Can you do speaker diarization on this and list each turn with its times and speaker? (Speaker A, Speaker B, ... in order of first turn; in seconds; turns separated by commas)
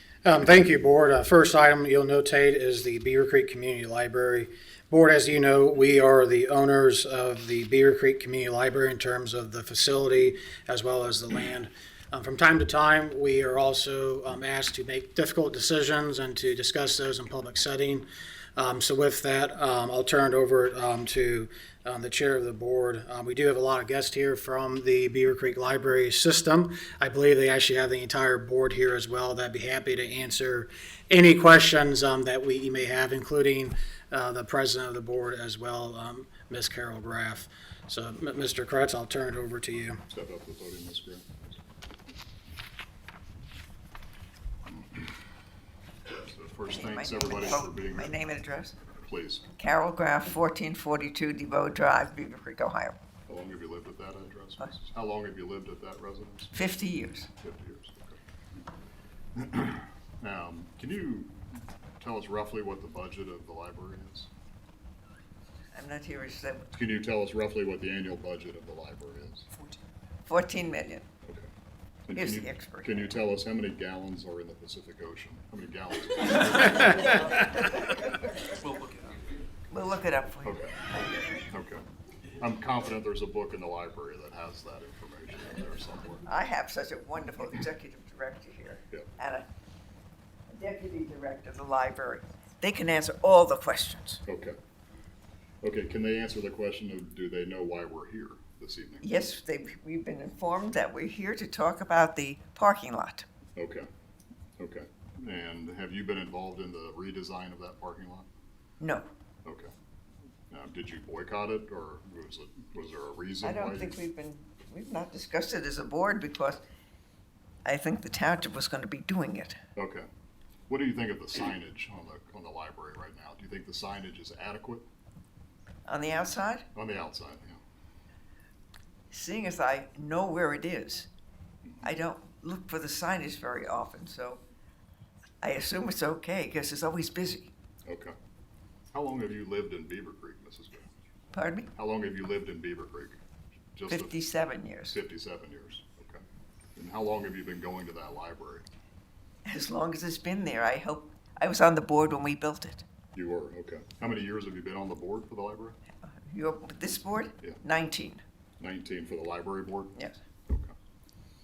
Speaker A: 0.2-18.1, Speaker A: 18.6-40.0, Speaker B: 40.1-41.5, Speaker B: 46.2-48.1, Speaker C: 46.7-48.8, Speaker B: 49.0-49.5, Speaker C: 49.6-53.0, Speaker B: 53.3-56.5, Speaker C: 56.5-57.3, Speaker B: 57.4-58.2, Speaker B: 59.3-61.4, Speaker B: 62.0-64.3, Speaker C: 65.7-66.7, Speaker B: 66.7-69.5, Speaker C: 70.3-71.1, Speaker B: 71.2-71.5, Speaker B: 72.1-77.0, Speaker C: 72.1-73.1, Speaker C: 79.7-80.6, Speaker B: 80.4-80.7, Speaker B: 81.5-81.9, Speaker B: 82.4-86.2, Speaker C: 86.3-89.5, Speaker C: 90.5-94.2, Speaker B: 94.3-94.6, Speaker B: 95.6-99.2, Speaker C: 99.0-103.2, Speaker B: 103.6-103.9, Speaker B: 104.6-108.3, Speaker C: 108.8-109.1, Speaker B: 109.5-109.7, Speaker B: 110.5-114.0, Speaker C: 113.4-116.6, Speaker C: 117.7-119.6, Speaker B: 119.8-120.1, Speaker B: 120.7-124.9, Speaker C: 125.8-126.7, Speaker B: 126.8-127.6, Speaker C: 129.1-131.1, Speaker C: 131.8-134.4, Speaker C: 135.4-137.5, Speaker B: 137.8-138.2, Speaker B: 138.9-140.9, Speaker C: 141.3-141.7, Speaker B: 141.8-143.2, Speaker B: 143.7-144.2, Speaker C: 143.9-145.0, Speaker B: 144.9-146.2, Speaker B: 146.8-148.7, Speaker C: 149.5-152.8, Speaker B: 153.1-155.8, Speaker C: 156.0-158.2, Speaker B: 158.6-160.8